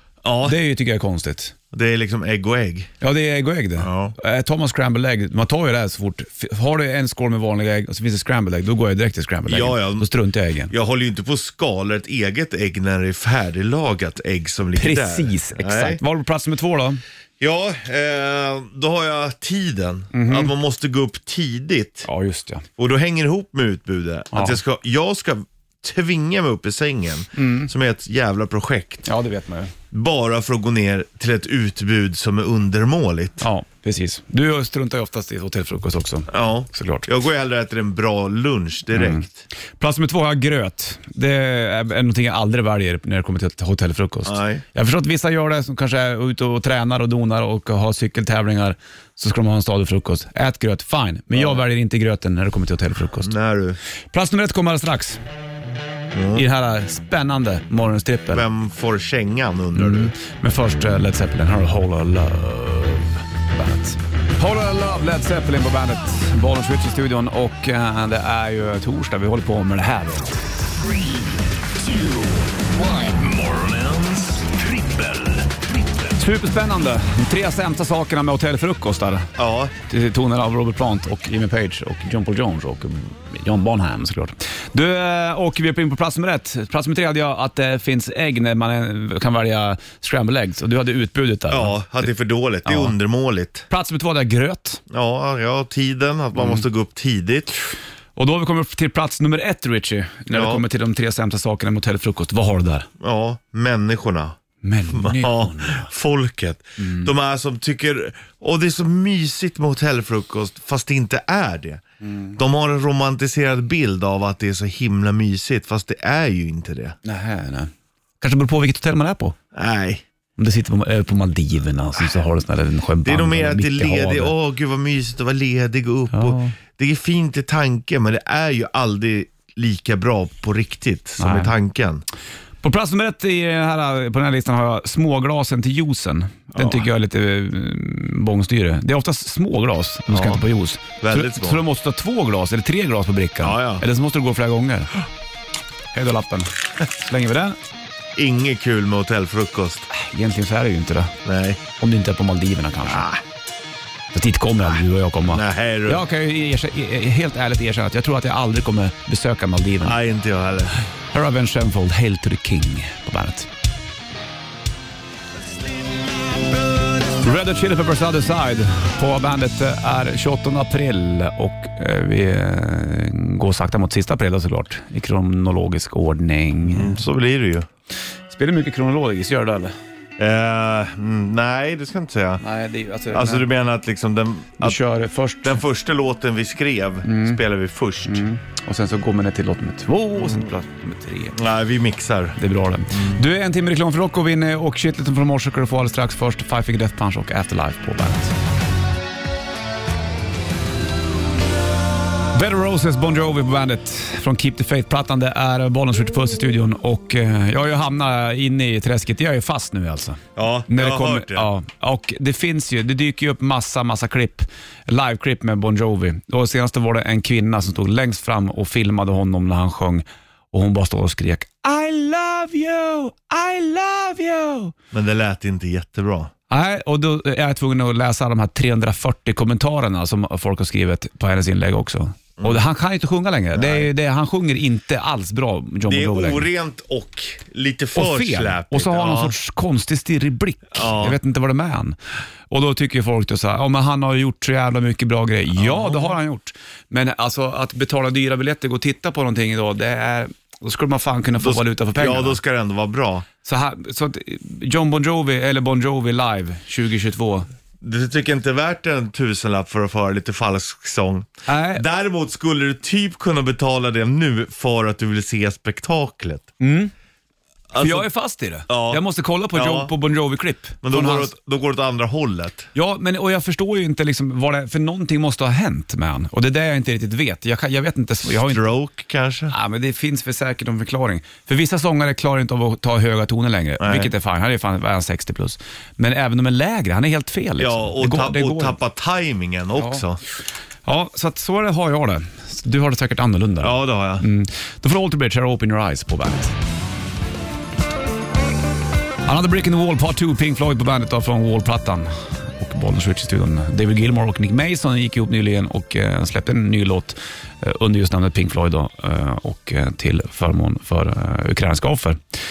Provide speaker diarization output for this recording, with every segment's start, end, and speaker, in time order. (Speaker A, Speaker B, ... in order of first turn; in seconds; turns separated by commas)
Speaker A: 0.2-0.6, Speaker B: 0.4-1.5, Speaker A: 1.7-2.9, Speaker B: 3.0-10.7, Speaker A: 3.8-4.1, Speaker A: 9.5-10.1, Speaker A: 10.7-16.0, Speaker B: 14.8-17.0, Speaker A: 17.4-22.1, Speaker B: 20.1-20.5, Speaker B: 22.0-22.6, Speaker A: 22.8-29.1, Speaker B: 24.3-24.6, Speaker B: 27.4-27.7, Speaker B: 29.0-29.7, Speaker A: 29.9-33.4, Speaker B: 33.4-37.1, Speaker A: 36.3-39.4, Speaker B: 38.9-39.2, Speaker B: 39.8-53.3, Speaker A: 44.2-44.6, Speaker A: 51.3-51.6, Speaker A: 53.2-53.8, Speaker B: 54.1-55.2, Speaker A: 56.1-56.4, Speaker B: 56.3-58.4, Speaker A: 58.3-60.1, Speaker B: 59.7-70.3, Speaker C: 71.8-76.2, Speaker B: 76.2-79.3, Speaker A: 79.4-79.7, Speaker B: 79.9-92.0, Speaker A: 91.5-93.7, Speaker B: 92.6-92.9, Speaker B: 93.7-94.8, Speaker A: 94.9-97.5, Speaker B: 96.3-96.6, Speaker B: 98.2-102.9, Speaker A: 100.3-100.6, Speaker A: 103.0-104.4, Speaker B: 104.6-105.9, Speaker A: 104.9-111.8, Speaker B: 106.8-107.1, Speaker B: 112.0-112.4, Speaker A: 112.3-117.0, Speaker B: 117.0-119.3, Speaker A: 119.5-120.0, Speaker B: 120.4-124.3, Speaker A: 123.0-132.0, Speaker B: 126.1-126.5, Speaker B: 131.2-131.5, Speaker B: 132.6-144.9, Speaker A: 136.5-136.9, Speaker A: 140.1-140.4, Speaker A: 141.0-141.6, Speaker A: 143.4-143.8, Speaker B: 145.9-147.6, Speaker A: 148.2-149.9, Speaker B: 149.9-151.1, Speaker A: 151.2-151.6, Speaker B: 151.8-153.1, Speaker A: 152.8-153.2, Speaker B: 154.1-160.0, Speaker A: 155.3-156.0, Speaker A: 159.8-160.8, Speaker B: 161.1-163.5, Speaker B: 167.1-177.0, Speaker A: 176.7-177.7, Speaker B: 178.3-179.7, Speaker A: 180.2-182.4, Speaker B: 182.4-183.4, Speaker A: 183.1-184.8, Speaker B: 184.6-185.6, Speaker A: 185.4-188.2, Speaker B: 187.1-187.4, Speaker B: 188.0-191.4, Speaker A: 191.3-192.4, Speaker B: 192.4-198.3, Speaker A: 192.9-193.2, Speaker B: 202.3-224.7, Speaker A: 210.3-211.5, Speaker A: 224.9-226.3, Speaker B: 226.5-236.5, Speaker A: 232.4-232.6, Speaker A: 233.5-233.9, Speaker A: 235.8-239.4, Speaker B: 237.9-242.0, Speaker A: 240.7-241.2, Speaker B: 242.5-252.4, Speaker A: 245.5-246.2, Speaker A: 251.4-253.3, Speaker B: 253.4-257.5, Speaker A: 257.8-266.5, Speaker B: 261.5-261.8, Speaker B: 266.6-266.9, Speaker A: 267.7-268.1, Speaker B: 267.8-271.3, Speaker A: 268.7-269.9, Speaker A: 270.8-272.7, Speaker B: 272.7-278.6, Speaker A: 278.2-279.5, Speaker B: 279.5-288.8, Speaker A: 283.8-284.1, Speaker A: 287.6-290.2, Speaker B: 289.8-290.0, Speaker B: 290.8-296.5, Speaker A: 293.6-294.2, Speaker B: 299.2-312.2